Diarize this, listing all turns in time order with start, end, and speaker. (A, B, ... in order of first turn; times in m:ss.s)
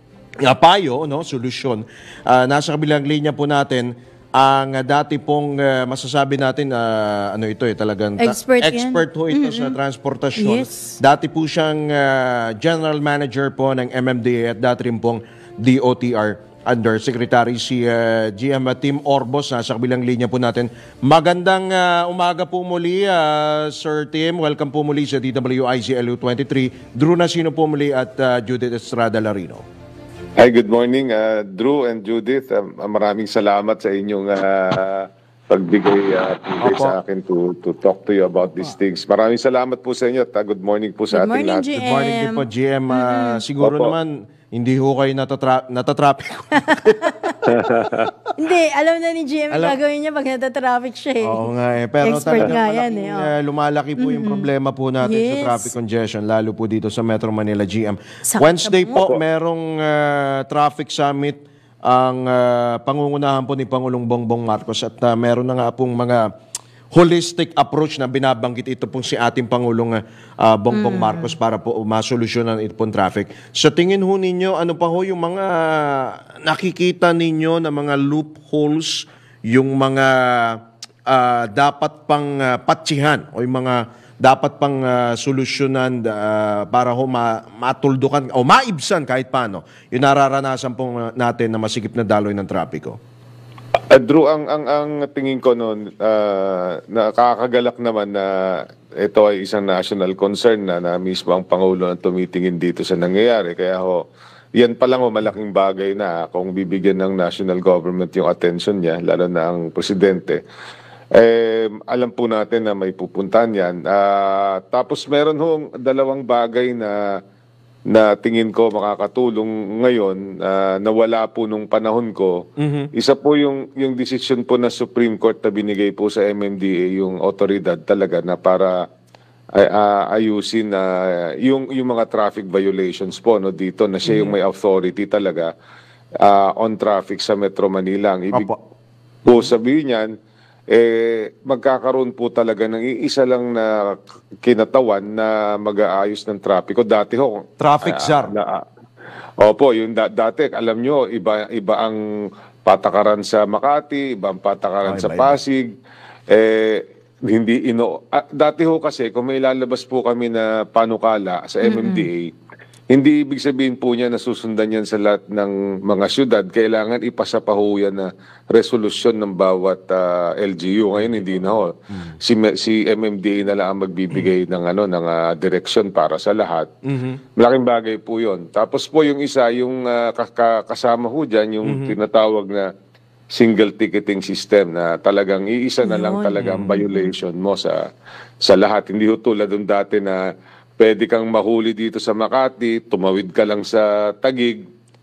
0:00.4-0:29.6 A
0:08.2-0:09.8 B
0:10.4-0:11.0 B
0:30.4-0:41.7 C
0:36.6-0:37.0 A
0:41.1-0:43.4 B
0:41.7-0:48.1 A
0:43.6-0:43.9 C
0:46.7-0:47.4 B
0:47.4-0:48.1 C
0:48.4-0:51.4 B
0:49.5-0:49.8 A
0:51.2-1:06.3 A
0:52.0-0:53.3 B
0:54.0-0:54.5 B
0:55.0-0:55.7 B
0:58.2-0:59.0 B
1:06.9-1:33.0 A
1:10.7-1:11.3 B
1:33.9-1:44.0 C
1:44.6-1:50.4 C
1:51.2-1:57.2 C
1:57.9-2:08.8 C
2:02.6-2:02.9 A
2:09.6-2:15.5 C
2:14.0-2:14.4 A
2:16.2-2:18.5 C
2:18.3-2:18.6 A
2:19.2-2:20.1 C
2:19.3-2:19.5 A
2:20.7-2:28.6 C
2:27.6-2:28.3 A
2:29.4-2:32.0 C
2:32.6-2:35.7 C
2:34.8-2:35.4 A
2:36.3-2:42.3 C
2:41.6-2:42.1 B
2:42.9-2:56.7 C
2:51.9-2:52.2 A
2:56.8-2:57.2 A
2:57.4-3:02.7 C
3:01.6-3:02.0 A
3:03.3-3:07.8 C
3:05.8-3:06.4 B
3:06.3-3:06.8 A
3:08.4-3:10.2 C
3:10.8-3:14.6 C